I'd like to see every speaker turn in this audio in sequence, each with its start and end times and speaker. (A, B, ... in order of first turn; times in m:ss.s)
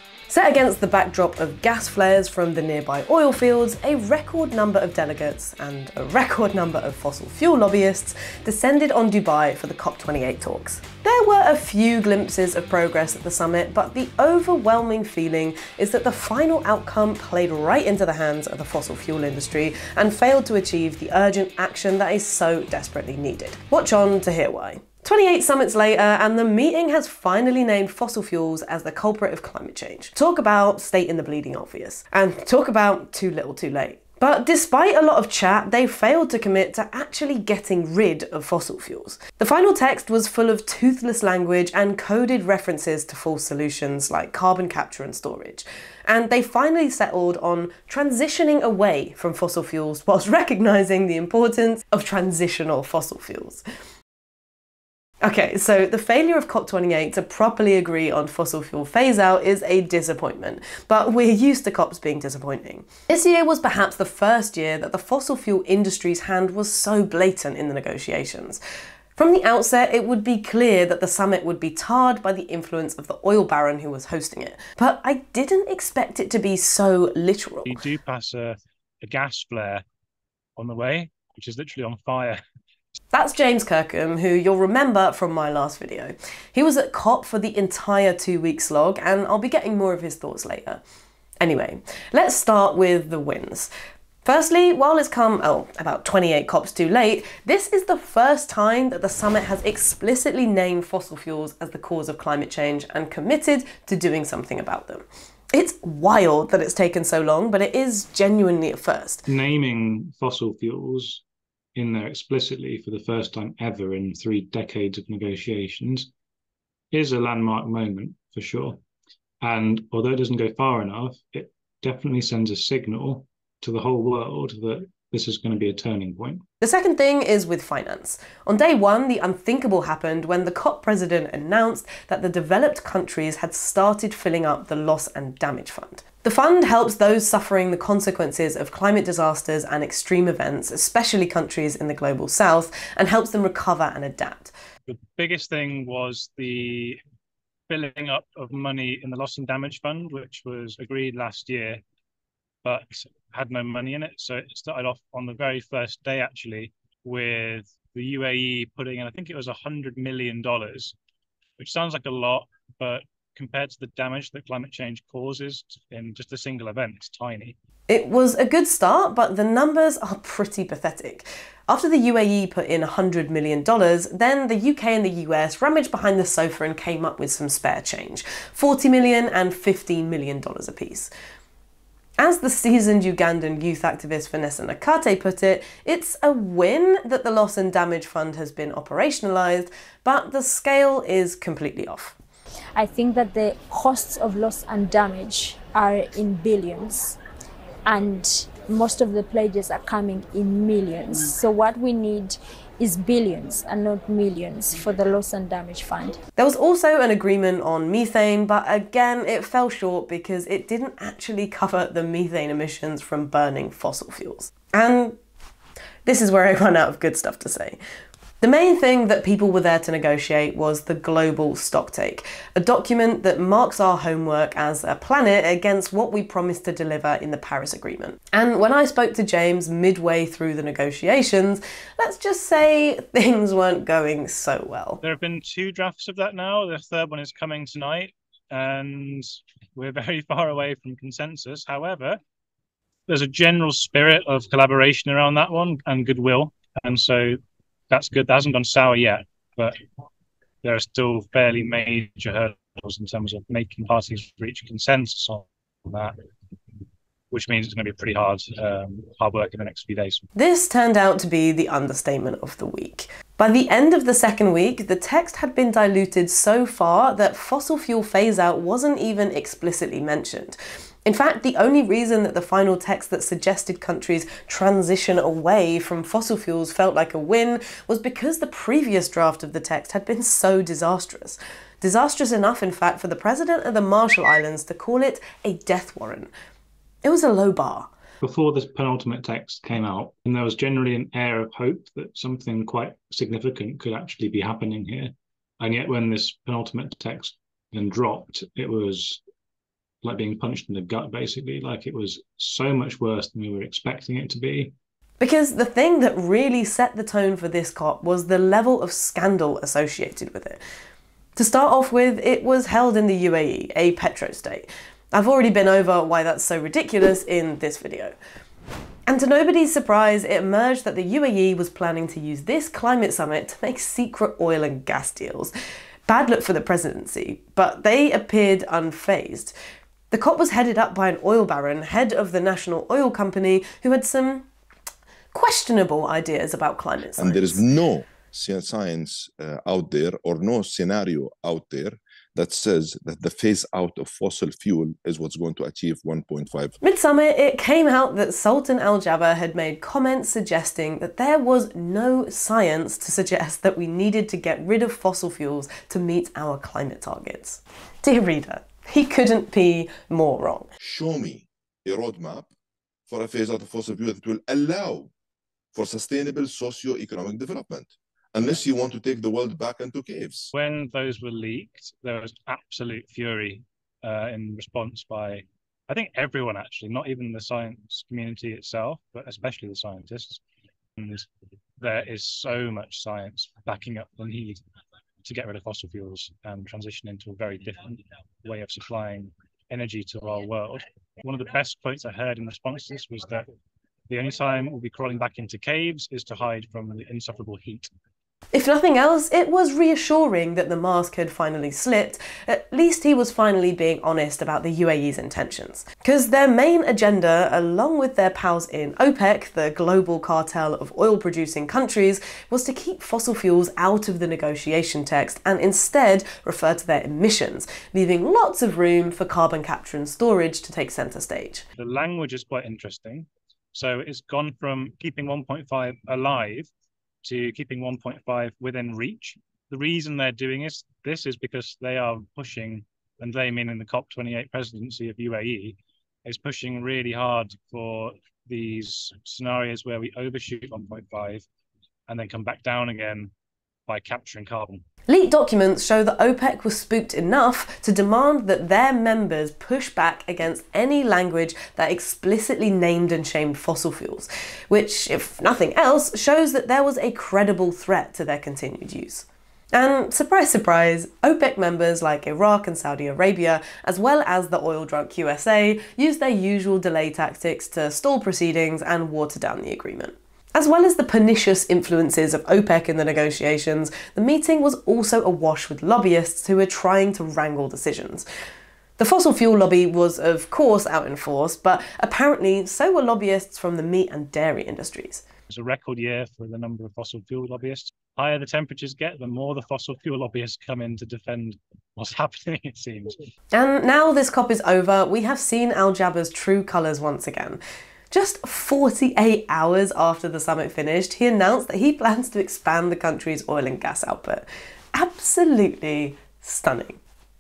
0:00.3-0:53.6 A
0:55.2-1:08.6 A
1:09.2-1:17.8 A
1:17.7-1:19.8 B
1:20.6-1:22.4 B
1:23.1-1:30.8 A
1:31.4-1:33.7 A
1:34.2-1:49.2 A
1:49.3-1:51.2 B
1:51.8-1:56.1 B
1:56.9-1:58.8 B
1:59.4-2:06.4 B
1:59.5-2:00.9 C
2:01.9-2:03.2 C
2:03.8-2:04.1 C
2:06.6-2:24.5 A
2:24.9-2:27.0 B
2:27.7-2:31.8 B
2:32.6-2:40.9 B
2:41.6-2:47.6 B
2:47.9-3:01.1 A
3:02.2-3:12.2 A
3:12.7-3:17.2 D
3:17.8-3:26.2 D
3:26.4-3:35.2 A
3:36.0-3:37.8 A
3:38.4-3:55.0 A
3:55.0-4:02.2 B
4:03.1-4:07.4 B
4:07.9-4:09.8 B
4:10.6-4:16.2 B
4:17.3-4:20.3 B
4:20.4-4:46.3 A
4:47.0-4:47.9 A
4:48.2-4:54.7 B
4:48.2-4:55.1 C
4:55.6-4:59.2 C
4:55.7-4:56.5 B
4:58.9-4:59.1 B
5:00.0-5:04.7 C
5:01.4-5:03.9 B
5:05.2-5:10.6 A
5:11.4-5:18.2 A
5:19.1-5:25.5 A
5:26.1-5:29.5 A
5:30.1-5:34.5 A
5:35.3-5:37.6 A
5:37.2-5:46.8 E
5:46.8-6:00.7 A
6:00.8-6:02.5 E
6:03.1-6:05.1 E
6:05.7-6:10.5 E
6:10.5-6:20.4 B
6:21.0-6:21.3 B
6:21.8-6:24.6 B
6:25.2-6:33.4 B
6:34.1-6:37.9 B
6:38.5-7:01.6 A
7:01.8-7:06.7 B
7:07.2-7:21.4 B
7:22.1-7:23.3 B
7:23.9-7:24.8 B
7:25.1-7:58.2 A
7:59.0-8:05.2 A
8:05.5-8:13.2 B
8:13.5-8:17.6 A
8:18.1-8:27.0 A